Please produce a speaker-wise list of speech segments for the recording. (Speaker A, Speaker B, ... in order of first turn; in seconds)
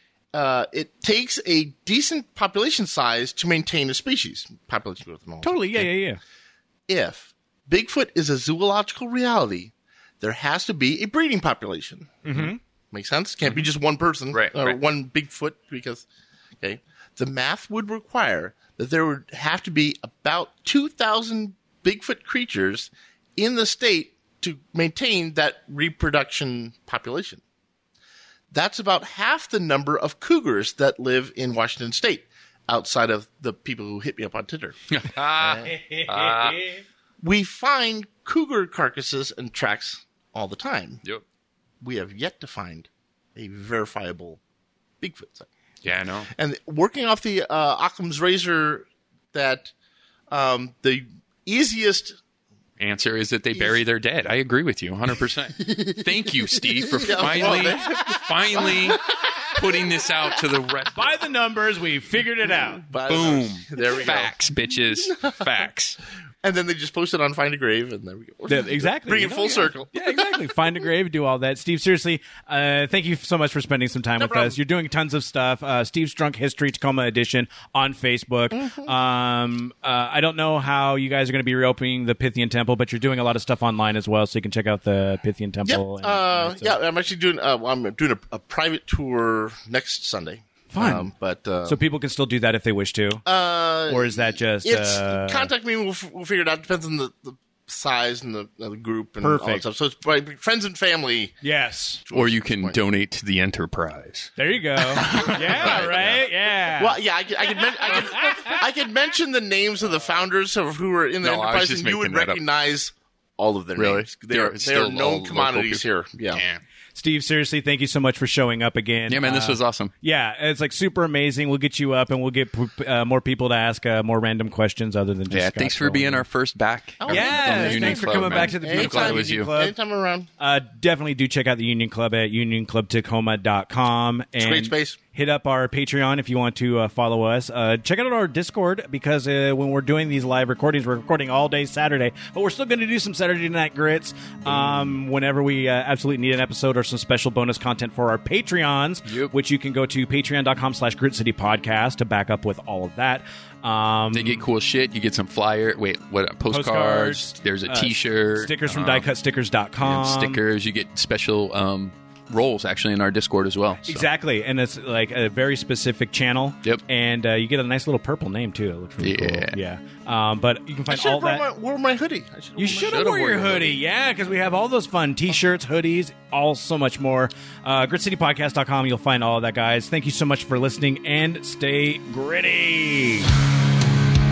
Speaker A: 0.3-5.9, 6.9-12.3, 12.9-16.1, 16.6-27.4, 28.5-35.7, 37.2-41.0, 41.8-44.4, 45.0-45.5, 46.3-49.7, 50.3-52.2, 57.0-59.0, 62.8-64.3, 66.4-69.9, 74.2-74.6, 78.5-79.0, 85.7-91.8, 93.2-101.3, 102.0-102.8, 105.0-105.9, 106.8-116.4, 127.0-130.3, 134.4-135.0, 170.9-173.0
Speaker B: 5.4-6.2, 12.2-12.6, 35.8-36.6, 60.9-62.8, 68.5-86.8, 90.7-91.1, 91.7-93.2, 93.9-95.5, 99.2-99.7, 101.4-102.0, 104.4-107.0, 107.8-108.6, 117.0-126.3, 127.1-129.7, 130.4-154.4, 156.5-160.4, 163.8-171.4, 172.6-183.3
Speaker C: 14.3-14.8, 34.9-36.7, 45.8-46.3, 52.8-61.2, 63.1-66.0, 102.1-104.3, 104.9-106.2, 111.2-112.4, 113.8-116.6, 119.1-119.9, 125.3-129.5, 149.1-149.3, 154.1-159.1, 159.8-164.1, 169.0-169.6, 172.8-173.8